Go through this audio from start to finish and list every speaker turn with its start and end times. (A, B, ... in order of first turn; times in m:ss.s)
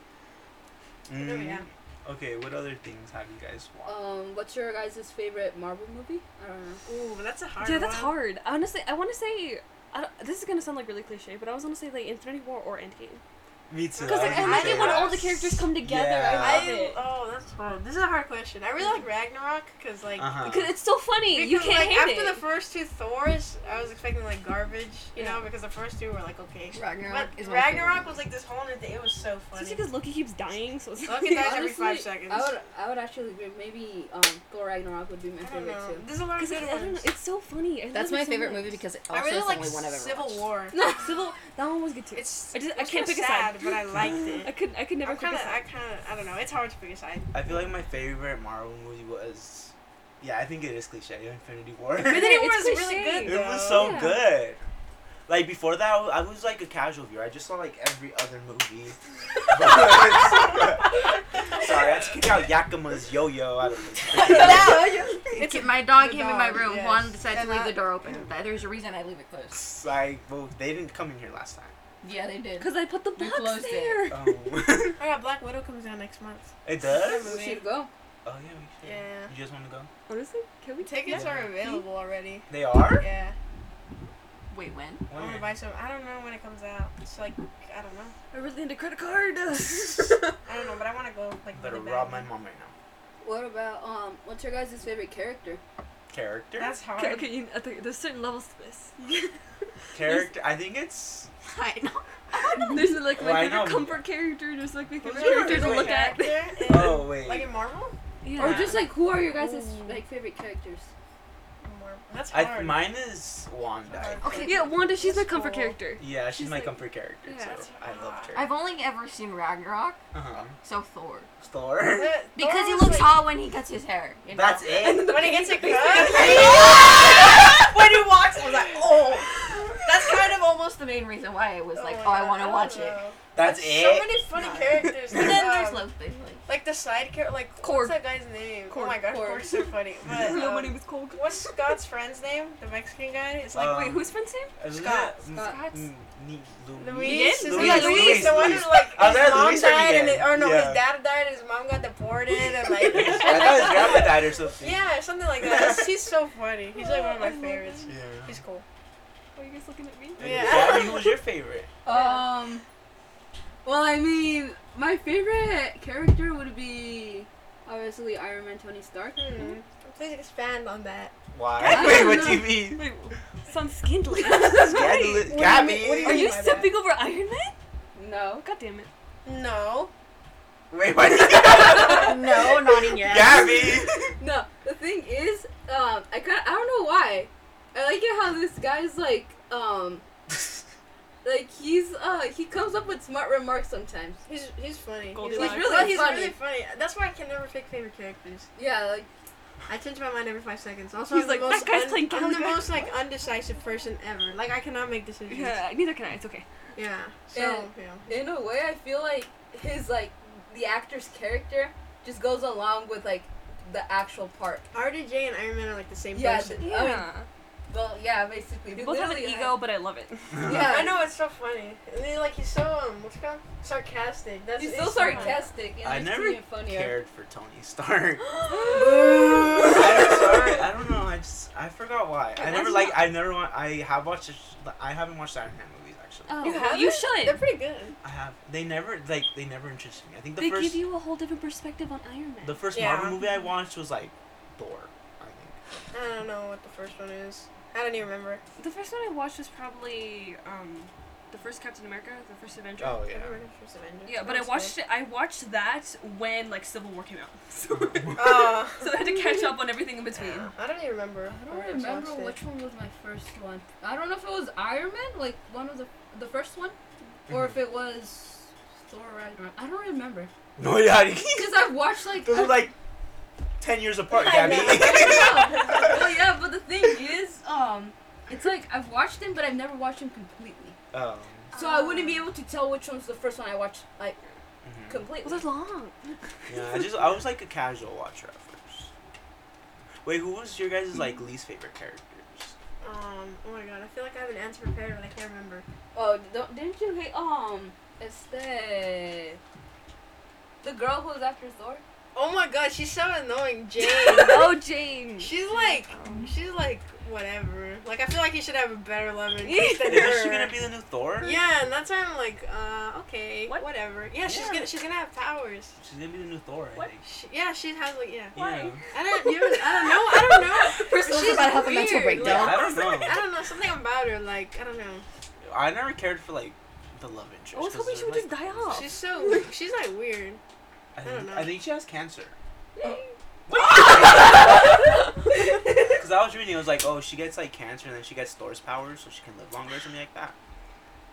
0:01.1-0:04.0 A
0:01.1-0:01.6 B
0:03.8-0:06.8 C
0:06.9-0:08.2 B
0:07.6-0:13.2 D
0:13.7-0:16.8 A
0:14.0-0:15.3 B
0:14.0-0:17.0 D
0:14.1-0:15.0 C
0:16.3-0:20.4 B
0:20.2-0:20.8 A
0:20.4-0:22.4 D
0:21.3-0:29.8 B
0:26.7-0:28.2 E
0:29.6-0:32.0 D
0:31.0-0:32.5 B
0:31.3-0:36.1 C
0:35.4-0:37.1 B
0:36.4-0:38.8 D
0:37.9-0:40.5 E
0:39.1-0:40.8 B
0:40.7-0:41.1 C
0:40.8-0:43.6 D
0:42.1-0:47.3 B
0:44.4-0:45.6 D
0:47.3-0:52.4 A
0:52.0-0:54.0 B
0:52.1-0:54.2 D
0:53.2-0:54.6 A
0:55.3-1:05.0 A
1:04.2-1:09.6 E
1:04.4-1:07.9 B
1:09.5-1:11.7 A
1:12.0-1:14.1 E
1:12.6-1:14.3 D
1:14.1-1:15.0 A
1:15.0-1:17.7 B
1:16.6-1:17.3 A
1:17.0-1:17.9 C
1:18.2-1:19.9 A
1:18.8-1:19.3 B
1:20.1-1:21.8 D
1:20.8-1:23.4 B
1:21.1-1:21.6 A
1:22.5-1:23.1 A
1:24.5-1:25.1 E
1:25.1-1:25.6 A
1:25.1-1:28.2 B
1:28.3-1:30.4 D
1:30.5-1:32.3 B
1:31.6-1:32.7 A
1:33.2-1:35.6 C
1:36.1-1:36.8 A
1:36.6-1:37.4 B
1:37.0-1:39.4 D
1:39.9-1:41.3 A
1:40.0-1:40.3 D
1:41.4-1:42.8 E
1:42.4-1:46.9 D
1:43.1-1:44.0 A
1:45.0-1:46.0 A
1:45.1-1:48.0 B
1:46.7-1:47.5 A
1:48.2-1:48.9 D
1:48.4-1:50.9 C
1:48.4-1:48.8 A
1:49.2-1:50.0 B
1:51.6-1:53.0 B
1:52.3-1:54.5 A
1:53.9-1:55.8 B
1:54.2-1:54.7 E
1:54.4-1:57.6 D
1:56.0-1:58.6 A
1:57.4-1:58.4 B
1:58.3-2:00.0 E
2:00.1-2:00.6 A
2:00.6-2:01.3 E
2:01.4-2:02.2 A
2:02.0-2:03.3 B
2:02.4-2:05.0 E
2:04.3-2:05.3 A
2:04.8-2:06.7 D
2:04.9-2:07.1 B
2:06.0-2:13.0 E
2:11.7-2:15.9 B
2:13.4-2:14.2 A
2:14.3-2:16.4 E
2:15.1-2:15.4 A
2:16.5-2:23.9 B
2:17.6-2:18.0 D
2:18.7-2:21.7 D
2:23.5-2:30.8 A
2:23.6-2:24.6 D
2:24.7-2:25.2 B
2:25.3-2:25.8 C
2:25.3-2:25.8 D
2:26.8-2:38.6 B
2:27.0-2:28.7 D
2:32.9-2:36.0 A
2:33.0-2:33.8 D
2:36.7-2:37.9 D
2:37.9-2:38.4 A
2:39.4-2:41.0 D
2:40.2-2:41.2 B
2:40.2-2:41.7 A
2:41.8-2:42.6 C
2:41.9-2:42.3 B
2:43.6-2:49.5 C
2:49.2-2:51.1 B
2:51.3-2:52.9 A
2:51.6-2:55.3 D
2:51.6-2:52.6 C
2:54.2-2:54.9 C
2:54.5-2:56.4 A
2:55.3-2:56.8 B
2:56.0-2:57.5 D
2:58.0-2:58.4 C
2:58.4-2:58.9 D
2:59.2-2:59.9 B
3:00.7-3:04.2 A
3:01.6-3:02.0 C
3:01.7-3:03.6 E
3:04.2-3:10.0 C
3:11.2-3:14.2 C
3:14.3-3:18.5 B
3:15.1-3:16.0 D
3:15.2-3:16.4 C
3:18.6-3:19.1 C
3:19.7-3:25.6 B
3:21.1-3:22.9 D
3:25.3-3:26.5 D
3:26.8-3:28.2 B
3:27.3-3:34.6 C
3:34.7-3:36.8 B
3:36.1-3:37.1 C
3:36.6-3:37.3 D
3:37.7-3:39.6 C
3:38.7-3:40.4 D
3:40.4-3:40.7 A
3:40.4-3:41.0 C
3:40.4-3:45.5 B
3:44.6-3:47.0 C
3:44.8-3:45.4 D
3:45.8-3:56.4 A
3:48.5-3:48.8 D
3:48.5-3:50.3 B
3:52.4-3:53.2 D
3:56.3-3:57.4 D
3:56.4-3:58.0 B
3:58.0-4:00.8 A
4:00.4-4:03.4 D
4:02.4-4:05.6 A
4:02.7-4:03.2 B
4:05.9-4:08.4 B
4:08.6-4:13.2 D
4:12.8-4:13.5 A
4:13.1-4:14.8 B
4:14.1-4:20.5 D
4:17.7-4:18.6 A
4:18.2-4:19.1 B
4:20.2-4:22.4 B
4:21.3-4:26.8 C
4:27.3-4:30.3 C
4:27.3-4:27.6 A
4:30.6-4:32.8 A
4:31.3-4:32.7 C
4:33.6-4:36.1 A
4:34.1-4:35.6 B
4:34.6-4:40.8 C
4:40.9-4:41.5 A
4:41.5-4:44.2 C
4:41.5-4:42.1 B
4:41.6-4:42.1 D
4:44.6-4:45.1 A
4:44.9-4:45.5 C
4:45.2-4:46.2 D
4:46.5-4:48.9 A
4:50.0-4:52.5 A
4:52.8-4:55.6 B
4:55.9-4:59.4 C
5:00.6-5:01.8 C
5:02.1-5:04.6 B
5:03.8-5:06.3 D
5:05.2-5:10.5 B
5:09.4-5:10.4 D
5:09.9-5:11.4 A
5:11.2-5:15.8 B
5:14.2-5:14.8 A
5:15.8-5:17.1 A
5:17.0-5:18.4 B
5:18.4-5:18.8 A
5:18.4-5:21.4 D
5:18.9-5:25.0 B
5:20.7-5:22.8 E
5:22.1-5:22.5 D
5:22.2-5:23.3 A
5:25.4-5:28.9 A
5:27.5-5:29.4 D
5:28.7-5:30.4 B
5:31.0-5:32.4 A
5:31.0-5:31.6 B
5:32.8-5:33.1 D
5:33.5-5:34.8 A
5:34.4-5:34.7 D
5:36.0-5:40.4 A